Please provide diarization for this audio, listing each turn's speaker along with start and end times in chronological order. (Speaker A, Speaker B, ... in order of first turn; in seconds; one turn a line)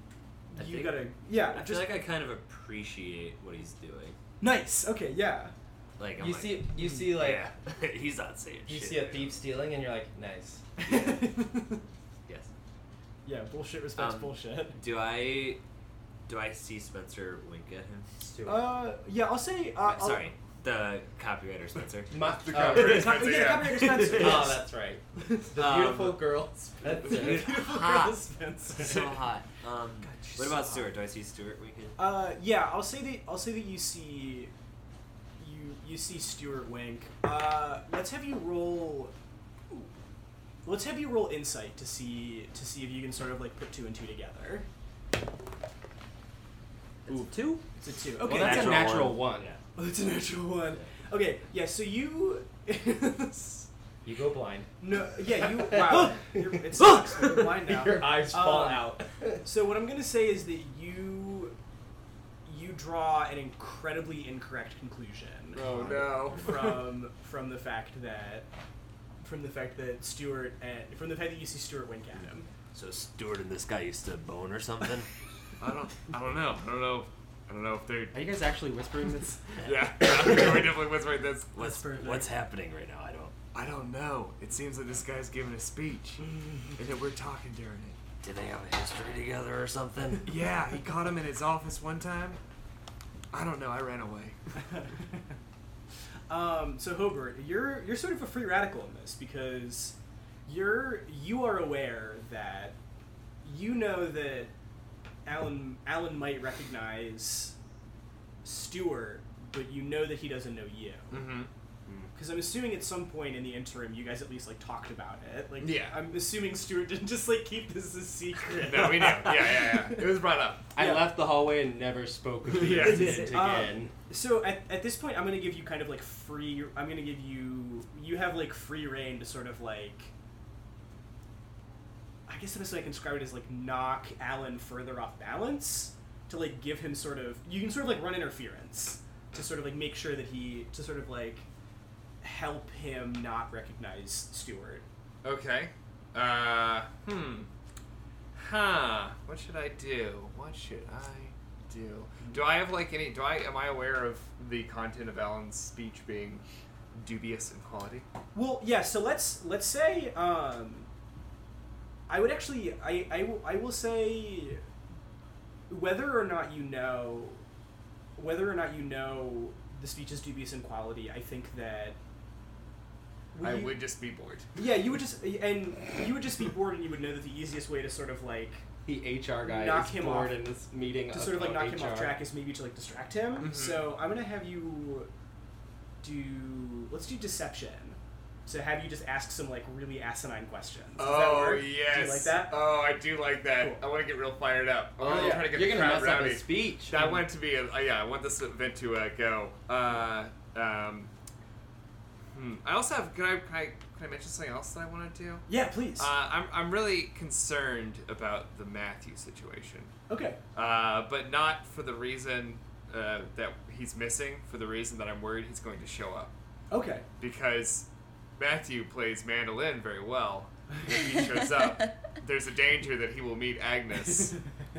Speaker A: 0.5-2.0
Speaker B: 0.6-4.2
Speaker A: 4.4-5.5
Speaker B: 6.0-9.4
Speaker C: 6.2-7.4
Speaker C: 8.7-10.6
Speaker A: 10.8-11.8
Speaker B: 10.9-11.2
Speaker A: 13.2-14.8
Speaker B: 14.0-15.6
Speaker B: 16.3-18.1
Speaker C: 18.2-18.7
Speaker A: 18.4-20.3
Speaker B: 19.8-22.1
Speaker C: 22.1-23.4
Speaker D: 22.4-24.1
Speaker A: 22.5-24.6
Speaker B: 23.6-24.6
Speaker C: 24.1-27.4
Speaker A: 25.2-25.5
Speaker B: 25.6-32.0
Speaker A: 27.0-29.3
Speaker A: 30.0-30.9
Speaker A: 32.0-34.5
Speaker A: 35.4-39.1
Speaker A: 40.6-44.7
Speaker B: 47.1-47.6
Speaker C: 47.1-47.5
Speaker A: 47.8-49.0
Speaker B: 48.2-49.6
Speaker C: 48.2-49.5
Speaker A: 49.8-53.7
Speaker C: 54.0-59.5
Speaker A: 54.8-61.5
Speaker A: 62.5-65.6
Speaker D: 65.5-66.6
Speaker C: 65.6-66.4
Speaker A: 66.4-68.5
Speaker A: 69.2-72.5
Speaker B: 72.7-75.1
Speaker D: 75.6-78.2
Speaker C: 78.1-79.4
Speaker B: 79.6-80.7
Speaker D: 79.6-81.8
Speaker B: 81.6-83.4
Speaker A: 81.6-82.3
Speaker D: 83.5-88.0
Speaker B: 88.2-90.3
Speaker D: 90.2-92.4
Speaker D: 93.3-94.4
Speaker A: 94.7-95.2
Speaker A: 96.3-100.0
Speaker A: 100.5-102.8
Speaker A: 103.4-104.5
Speaker A: 105.3-107.5
Speaker A: 108.4-111.3
Speaker D: 111.1-111.5
Speaker A: 112.2-120.0
Speaker D: 115.6-116.0
Speaker D: 118.6-120.7
Speaker A: 120.8-121.1
Speaker C: 120.8-123.9
Speaker D: 122.6-123.3
Speaker A: 122.8-130.1
Speaker B: 122.9-123.2
Speaker A: 132.3-141.4
Speaker A: 142.2-144.8
Speaker D: 145.2-147.5
Speaker D: 148.4-156.4
Speaker D: 156.9-158.1
Speaker A: 158.3-160.9
Speaker A: 162.1-164.6
Speaker A: 165.7-167.4
Speaker A: 168.2-172.0
Speaker A: 173.3-173.8
Speaker D: 173.4-174.7
Speaker A: 174.6-178.6
Speaker C: 178.9-182.2
Speaker A: 179.5-180.4
Speaker A: 181.1-185.1
Speaker D: 183.4-183.9
Speaker A: 186.0-192.6
Speaker D: 191.0-201.1
Speaker A: 193.6-193.9
Speaker C: 195.0-197.2
Speaker A: 195.1-195.5
Speaker D: 202.3-205.4
Speaker A: 205.5-206.1
Speaker D: 206.0-209.9
Speaker A: 210.1-210.4
Speaker D: 210.6-216.3
Speaker A: 216.7-217.1
Speaker D: 217.2-217.9
Speaker D: 218.4-224.3
Speaker A: 224.1-224.3